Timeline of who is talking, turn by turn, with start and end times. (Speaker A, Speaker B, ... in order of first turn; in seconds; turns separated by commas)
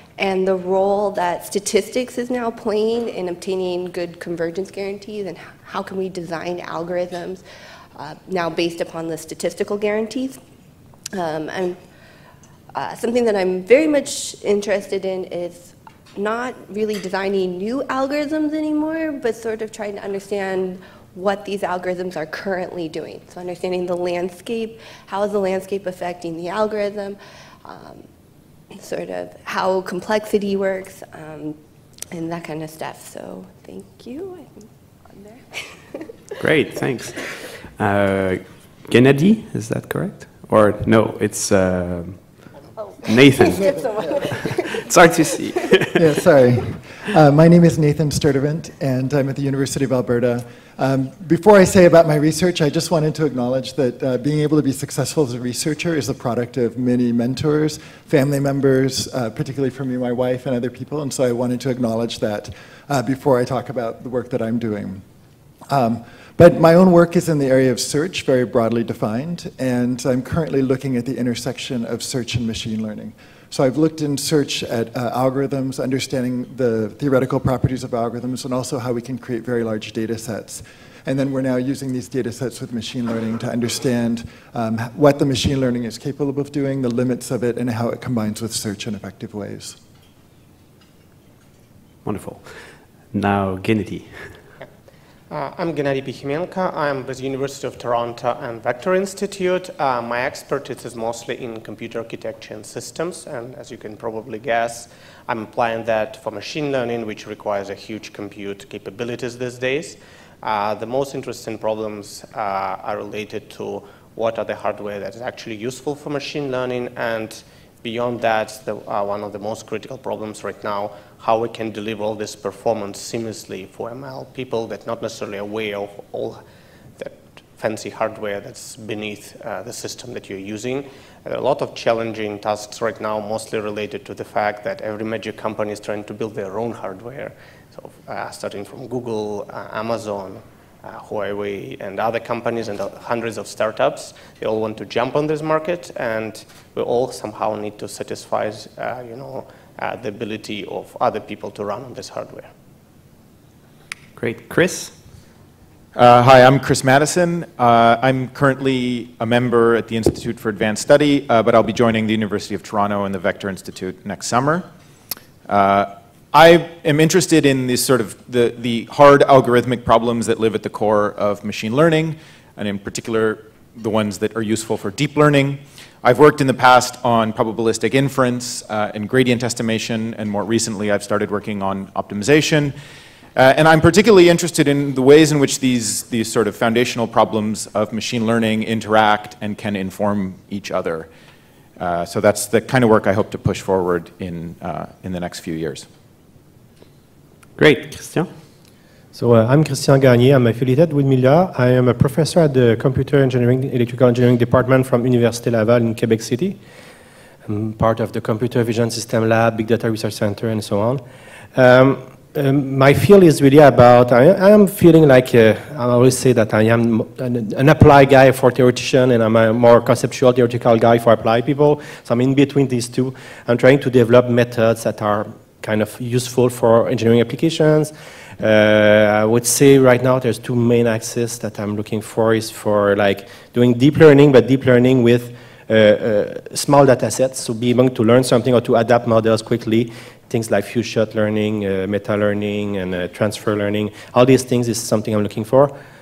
Speaker A: 0.2-7.4, Speaker A: 8.0-10.4, Speaker A: 11.1-11.8, Speaker A: 12.7-28.1, Speaker A: 28.7-31.6, Speaker A: 32.1-36.1, Speaker B: 36.4-42.5, Speaker A: 43.0-44.8, Speaker B: 43.1-43.8, Speaker B: 44.7-46.0, Speaker C: 46.0-65.0, Speaker C: 65.7-89.8, Speaker B: 92.0-92.5, Speaker B: 93.1-94.4, Speaker D: 95.3-126.4, Speaker D: 127.0-152.5, Speaker B: 154.2-154.9, Speaker E: 155.9-164.7, Speaker E: 165.5-182.8, Speaker E: 183.3-191.1, Speaker E: 191.8-195.9, Speaker B: 197.6-198.3, Speaker F: 199.1-206.6, Speaker F: 207.5-211.0, Speaker F: 211.5-245.7